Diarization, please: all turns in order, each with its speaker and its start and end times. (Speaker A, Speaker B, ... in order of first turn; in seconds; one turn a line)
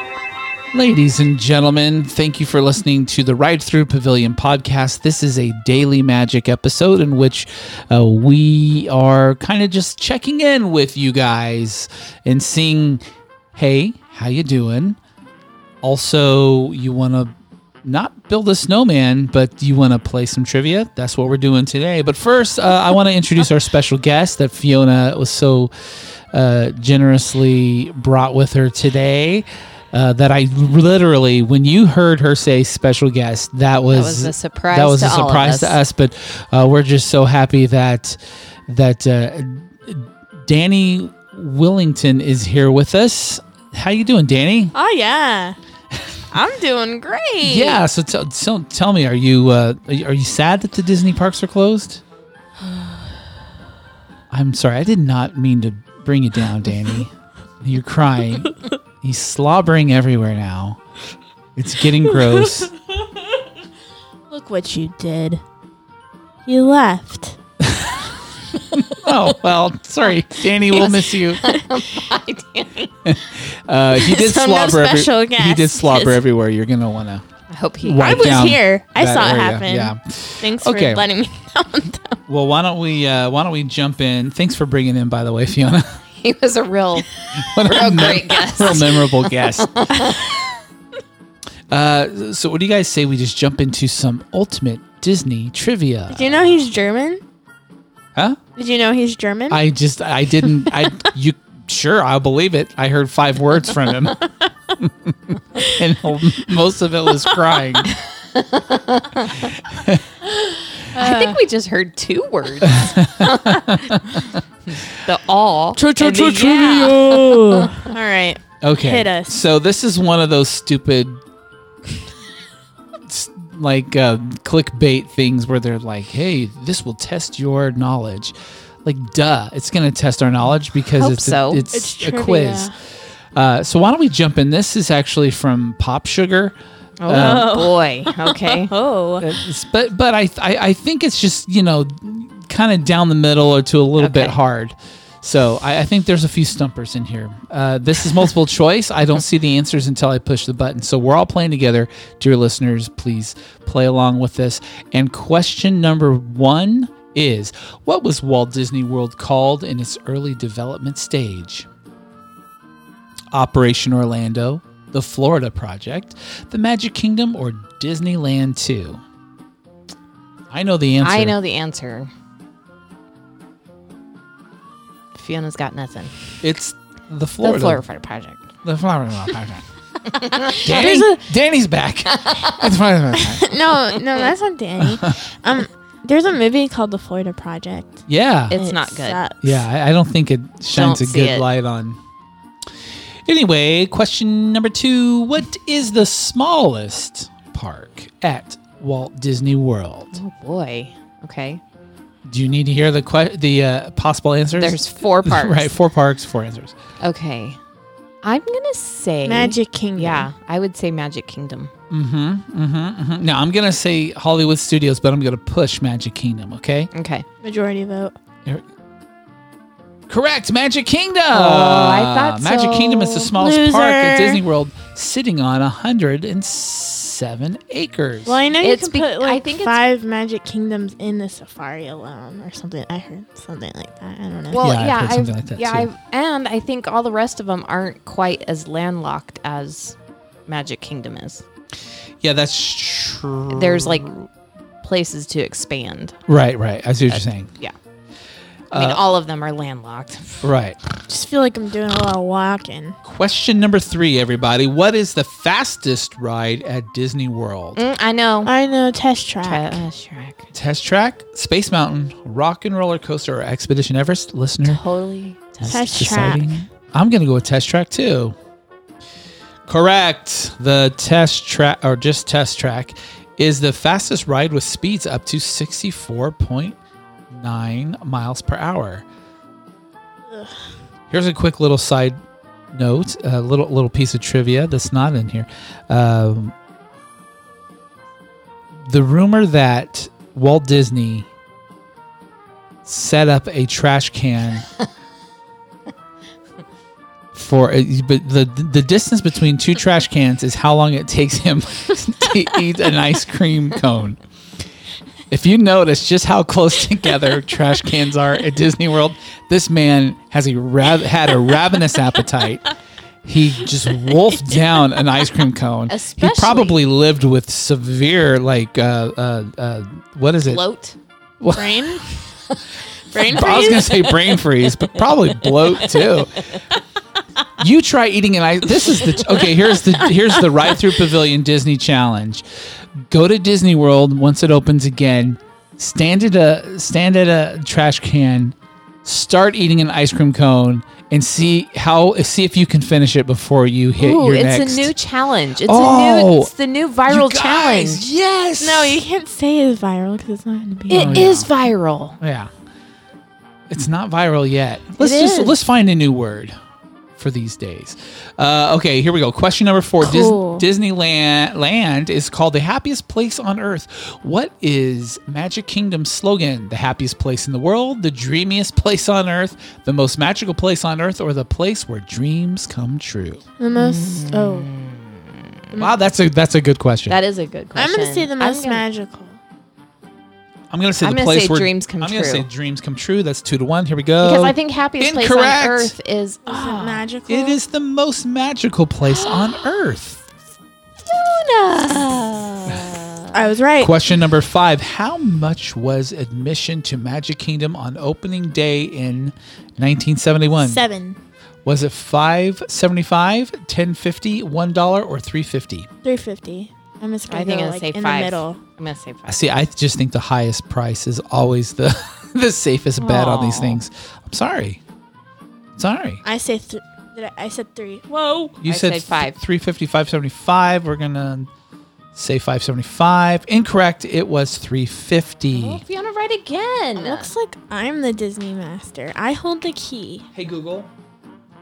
Speaker A: 0.7-13.0
Speaker A: 13.5-15.0
Speaker A: 15.8-25.7
Speaker A: 26.3-44.7
Speaker B: 33.9-35.8
Speaker C: 44.7-45.6
Speaker C: 46.3-47.8
Speaker A: 47.4-52.0
Speaker A: 54.3-57.1
Speaker A: 57.6-60.8
Speaker A: 61.6-62.7
Speaker C: 64.3-65.4
Speaker C: 66.5-67.4
Speaker A: 67.6-68.0
Speaker A: 68.7-71.5
Speaker B: 70.7-72.9
Speaker C: 71.5-72.1
Speaker A: 73.0-77.2
Speaker C: 74.0-76.2
Speaker B: 77.5-78.2
Speaker A: 77.8-81.0
Speaker C: 78.0-82.2
Speaker A: 82.3-86.0
Speaker B: 86.2-90.2
Speaker A: 87.3-89.9
Speaker C: 90.0-90.5
Speaker A: 91.7-96.5
Speaker C: 96.1-97.2
Speaker A: 98.2-98.4
Speaker C: 98.6-99.6
Speaker A: 99.5-104.2
Speaker A: 104.8-108.0
Speaker B: 108.2-109.5
Speaker A: 109.3-110.0
Speaker C: 110.3-111.4
Speaker B: 110.9-113.8
Speaker A: 112.6-114.2
Speaker B: 114.7-117.9
Speaker C: 115.8-119.4
Speaker A: 118.6-121.2
Speaker A: 123.1-132.7
Speaker B: 130.9-131.6
Speaker C: 131.7-132.7
Speaker A: 133.3-137.5
Speaker B: 137.0-138.7
Speaker C: 137.1-139.3
Speaker A: 139.2-161.7
Speaker B: 144.0-144.4
Speaker A: 163.3-169.0
Speaker A: 170.5-171.4
Speaker B: 171.0-172.1
Speaker B: 175.1-176.1
Speaker A: 176.4-177.8
Speaker B: 177.4-178.5
Speaker A: 178.6-179.6
Speaker B: 180.1-181.1
Speaker A: 180.6-183.5
Speaker C: 180.8-181.1
Speaker B: 182.1-182.7
Speaker C: 183.2-189.7
Speaker A: 184.8-185.2
Speaker A: 188.1-188.6
Speaker B: 188.5-189.2
Speaker A: 189.4-192.0
Speaker B: 190.7-191.5
Speaker A: 193.3-200.2
Speaker B: 200.1-201.6
Speaker A: 202.3-206.8
Speaker B: 204.5-205.7
Speaker B: 207.0-207.6
Speaker B: 208.2-211.7
Speaker C: 209.2-210.3
Speaker A: 211.9-216.9
Speaker B: 216.9-217.3
Speaker C: 217.4-218.1
Speaker A: 220.1-228.4
Speaker B: 221.3-223.3
Speaker C: 223.4-224.4
Speaker C: 228.3-234.7
Speaker B: 228.6-229.8
Speaker B: 234.5-241.4
Speaker A: 234.6-235.9
Speaker A: 242.2-244.2
Speaker B: 243.5-244.2
Speaker B: 244.8-246.2
Speaker A: 246.3-247.5
Speaker B: 247.1-247.8
Speaker A: 248.7-249.0
Speaker B: 248.7-250.5
Speaker A: 250.4-250.8
Speaker C: 251.1-253.0
Speaker A: 253.0-257.8
Speaker B: 257.8-258.5
Speaker C: 258.4-259.8
Speaker B: 259.4-260.5
Speaker A: 260.5-264.8
Speaker B: 264.6-266.4
Speaker A: 265.6-268.4
Speaker C: 265.7-266.6
Speaker A: 269.7-276.8
Speaker A: 277.3-279.1
Speaker A: 281.1-282.2
Speaker A: 282.7-286.6
Speaker A: 288.9-291.3
Speaker A: 292.9-294.7
Speaker A: 297.3-304.2
Speaker A: 305.3-312.7
Speaker A: 313.2-320.6
Speaker B: 315.9-316.8
Speaker B: 320.4-321.0
Speaker A: 321.4-322.2
Speaker C: 321.6-322.1
Speaker C: 323.1-324.3
Speaker A: 323.2-326.6
Speaker B: 325.5-326.3
Speaker A: 327.6-332.4
Speaker A: 333.0-344.9
Speaker B: 344.0-348.1
Speaker A: 345.6-346.5
Speaker A: 347.1-349.0
Speaker C: 348.6-351.3
Speaker B: 350.9-352.2
Speaker A: 350.9-351.5
Speaker A: 352.2-352.5
Speaker A: 353.7-356.6
Speaker B: 355.0-355.5
Speaker A: 357.2-373.4
Speaker C: 360.0-360.7
Speaker C: 373.6-374.7
Speaker B: 373.7-375.8
Speaker A: 375.8-377.2
Speaker B: 377.1-378.9
Speaker C: 377.8-379.4
Speaker A: 380.7-385.9
Speaker B: 381.0-382.5
Speaker B: 384.2-387.1
Speaker C: 386.5-387.6
Speaker A: 387.3-390.2
Speaker B: 389.1-389.6
Speaker B: 391.0-393.4
Speaker C: 393.3-393.9
Speaker A: 393.8-400.8
Speaker C: 400.6-401.2
Speaker A: 401.7-405.9
Speaker C: 406.0-408.6
Speaker B: 407.3-409.4
Speaker A: 409.3-414.8
Speaker B: 413.0-413.8
Speaker A: 415.8-416.2
Speaker C: 416.2-418.6
Speaker A: 418.6-421.5
Speaker B: 418.6-419.4
Speaker A: 422.1-425.8
Speaker B: 425.5-427.3
Speaker C: 427.0-430.2
Speaker A: 430.3-430.9